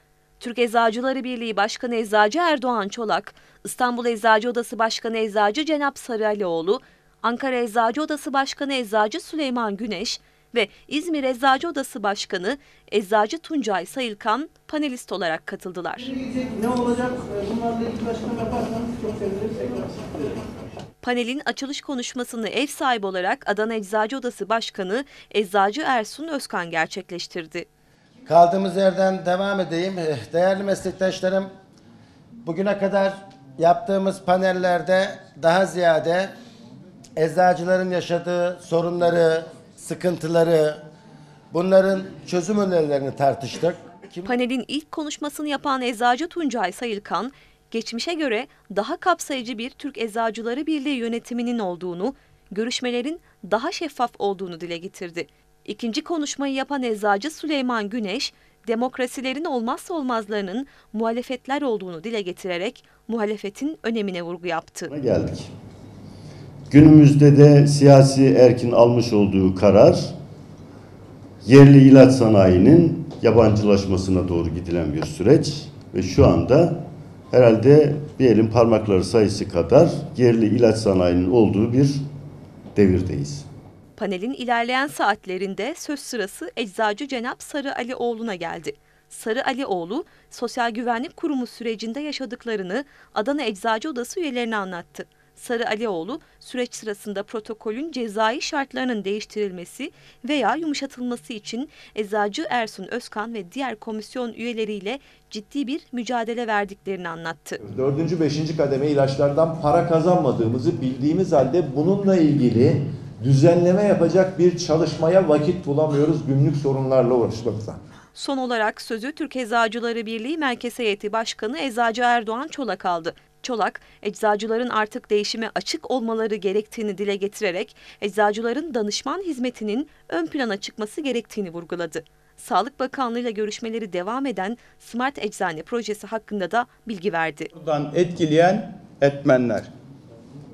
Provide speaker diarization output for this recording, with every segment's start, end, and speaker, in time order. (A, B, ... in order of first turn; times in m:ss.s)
0:00.4-0:16.2 A
0:16.4-0:19.8 B
0:21.0-0:27.7 A
0:28.2-0:31.5 C
0:32.4-0:36.3 C
0:37.2-0:40.8 C
0:41.5-0:44.3 C
0:44.2-1:04.9 A
1:04.9-1:05.5 D
1:06.7-1:10.0 D
1:11.4-1:22.0 D
1:22.8-1:23.5 D
1:24.0-1:47.6 A
1:47.6-1:57.8 E
1:58.1-2:17.5 A
2:17.5-2:19.7 F